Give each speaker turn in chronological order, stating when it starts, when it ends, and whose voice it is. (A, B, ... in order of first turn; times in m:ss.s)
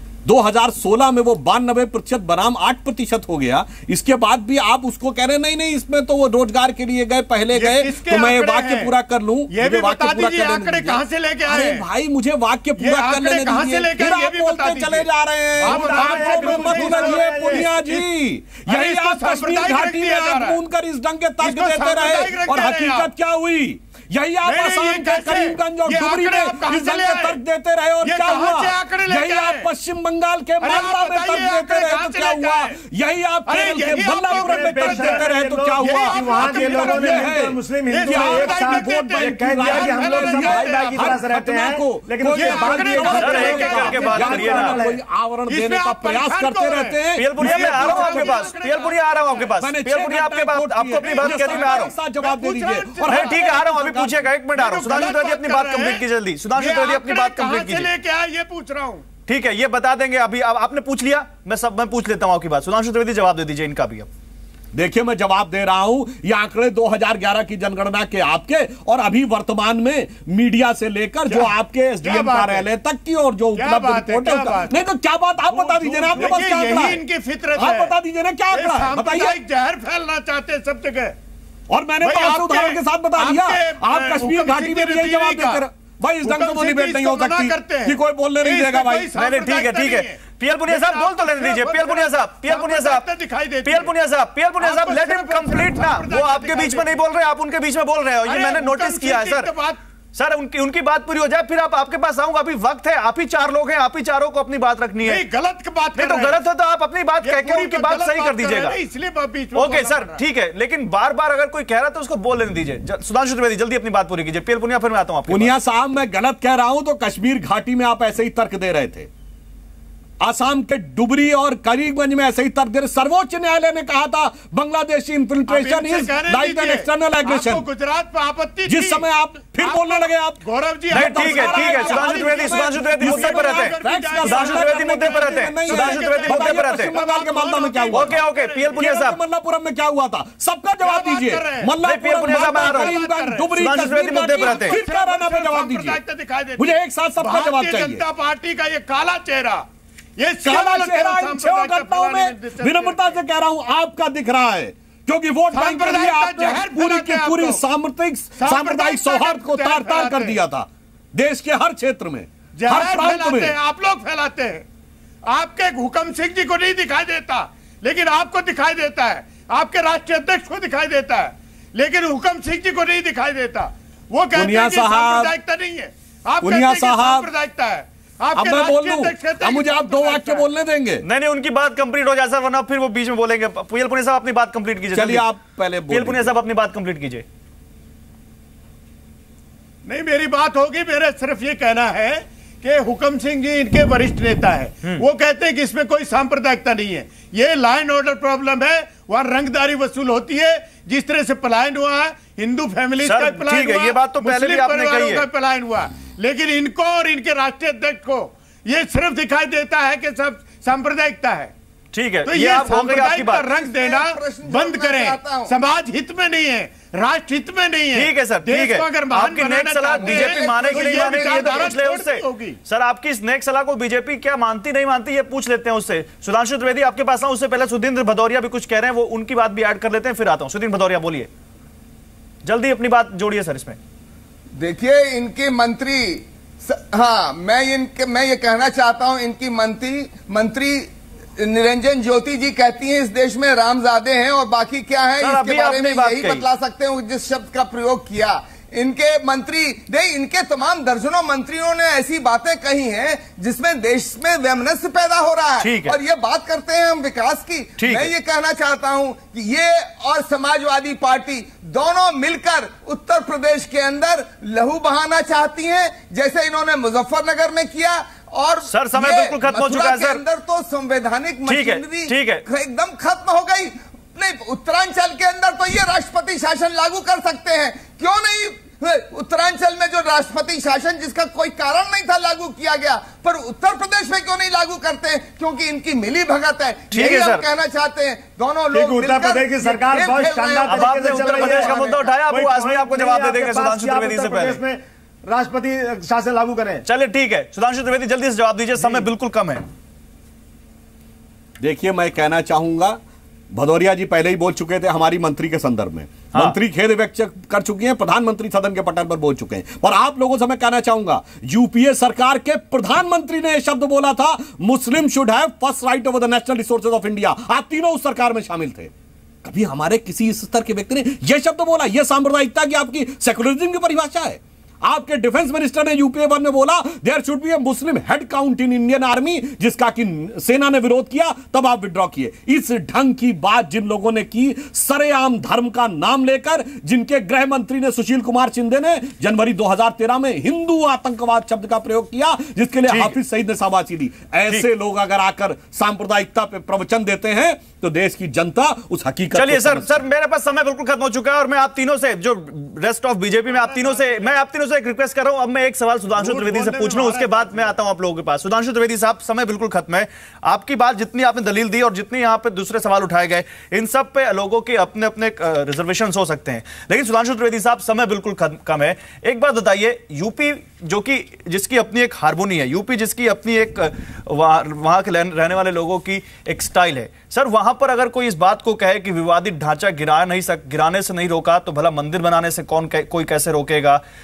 0:00.2-0:48.5 A
0:07.5-0:08.9 B
0:09.5-0:11.8 B
0:12.8-0:15.1 B
0:15.6-0:18.1 B
0:15.6-0:17.7 C
0:18.7-0:20.6 B
0:21.4-0:23.1 B
0:24.4-0:27.4 B
0:28.0-0:29.7 B
0:30.6-0:32.8 B
0:33.5-0:37.4 B
0:34.3-0:45.0 C
0:37.9-0:41.2 B
0:42.3-0:44.7 B
0:43.2-0:44.8 D
0:45.5-0:49.6 B
0:47.2-0:51.9 D
0:49.6-0:54.3 A
0:51.0-0:53.6 B
0:53.1-0:57.9 D
0:54.5-0:59.0 B
0:59.3-1:04.1 D
1:04.7-1:17.0 A
1:11.3-1:12.7 B
1:13.6-1:14.8 B
1:15.5-1:17.9 B
1:17.6-1:19.4 A
1:18.5-1:21.2 B
1:21.7-1:29.1 A
1:22.0-1:25.6 B
1:26.2-1:33.9 B
1:29.2-1:33.1 D
1:33.6-1:39.5 D
1:34.6-1:36.9 B
1:38.2-1:39.8 B
1:40.2-1:45.2 D
1:45.0-1:46.4 B
1:46.0-1:48.8 D
1:47.2-1:50.2 B
1:49.5-1:55.5 D
1:55.3-1:59.1 A
2:00.2-2:07.7 A
2:05.5-2:18.8 B
2:08.7-2:18.2 A
2:10.9-2:17.0 D
2:17.9-2:19.2 D
2:18.8-2:26.0 A
2:20.8-2:21.7 B
2:21.8-2:23.0 D
2:22.4-2:23.7 B
2:23.5-2:24.8 D
2:24.4-2:33.2 B
2:26.6-2:28.0 A
2:30.4-2:43.6 A
2:35.5-2:37.6 B
2:38.4-2:40.4 B
2:42.6-2:44.6 B
2:45.3-3:00.4 B
2:54.3-2:55.4 A
2:56.4-2:57.3 A
2:58.4-3:01.0 A
3:01.0-3:05.3 D
3:04.9-3:06.4 A
3:05.9-3:07.2 D
3:09.8-3:31.5 B
3:23.0-3:25.2 D
3:31.9-3:33.5 D
3:32.3-3:42.6 B
3:33.6-3:35.6 E
3:37.9-3:51.3 D
3:39.9-3:41.8 E
3:52.4-3:53.8 D
3:54.6-4:52.0 E
4:05.2-4:06.5 D
4:15.6-4:16.0 D
4:17.8-4:18.1 D
4:28.6-4:30.2 D
4:31.5-4:32.4 D
4:46.9-4:47.5 D
4:48.7-4:56.8 C
4:50.7-4:54.6 D
4:56.9-4:59.6 D
5:01.6-5:03.0 A
5:03.5-5:18.9 A
5:19.4-5:50.0 A
5:42.9-5:43.2 D
5:49.3-6:24.0 D
5:53.5-5:54.4 B
5:56.2-5:57.8 B